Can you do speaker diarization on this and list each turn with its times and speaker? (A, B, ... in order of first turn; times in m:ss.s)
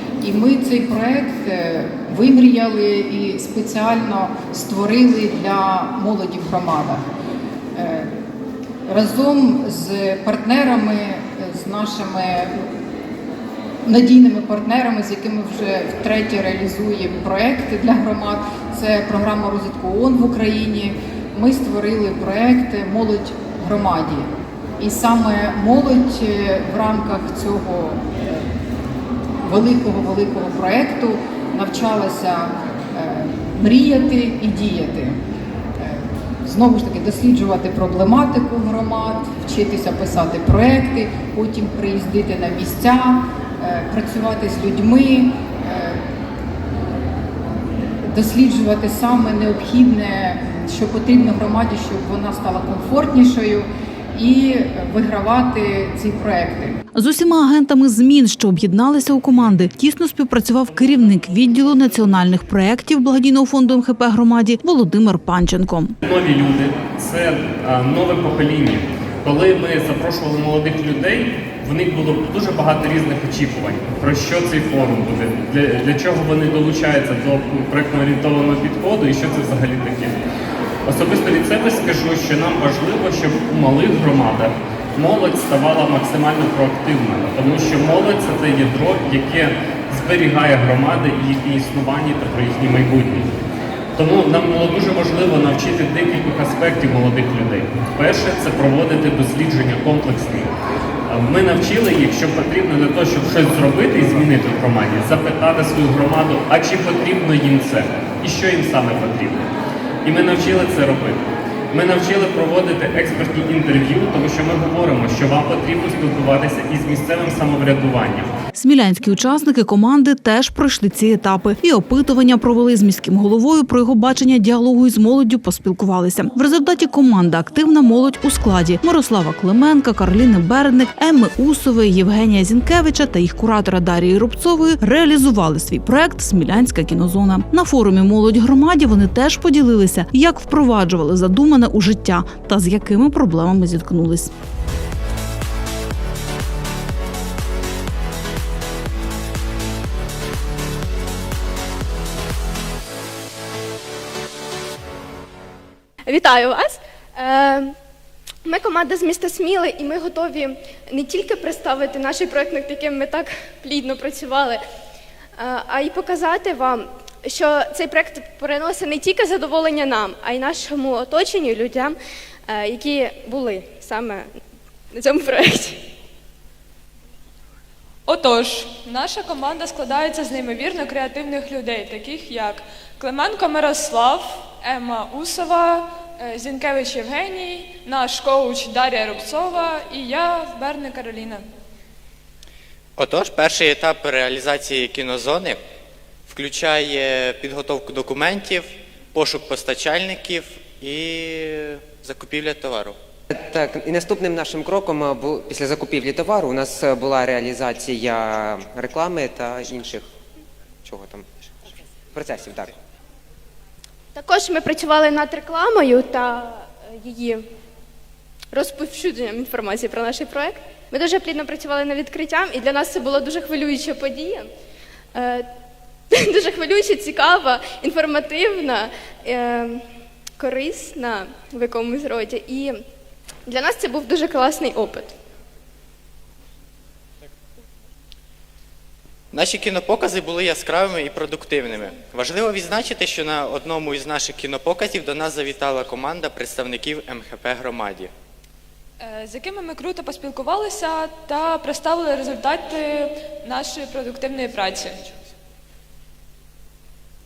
0:00.2-0:07.0 A
0:07.7-0:08.1 A
0:08.9-0:12.6 A
0:13.8-0:24.3 A
0:24.8-0:28.4 A
0:29.4-0:35.2 A
0:35.8-0:46.0 A
0:48.1-0:56.8 A
0:56.9-1:06.0 B
1:06.0-1:20.2 C
1:20.8-1:33.3 C
1:34.0-1:40.5 C
1:41.1-1:49.5 C
1:50.0-1:51.2 C
1:51.7-1:58.3 C
1:58.5-2:24.3 B
2:36.0-2:37.7 D
2:38.4-2:44.6 D
2:45.4-2:52.0 D
2:52.5-2:54.3 D
2:54.9-2:55.8 D
2:58.0-3:11.4 E
3:13.0-3:15.6 F
3:16.3-3:23.0 F
3:23.3-3:30.1 G
3:30.8-3:32.7 G
3:34.1-3:37.4 D
3:38.5-3:44.5 D
3:45.1-3:45.5 D
3:46.1-3:49.8 D
3:50.4-3:52.8 D
3:53.5-3:55.1 D
3:59.3-4:08.1 F
4:09.0-4:15.1 E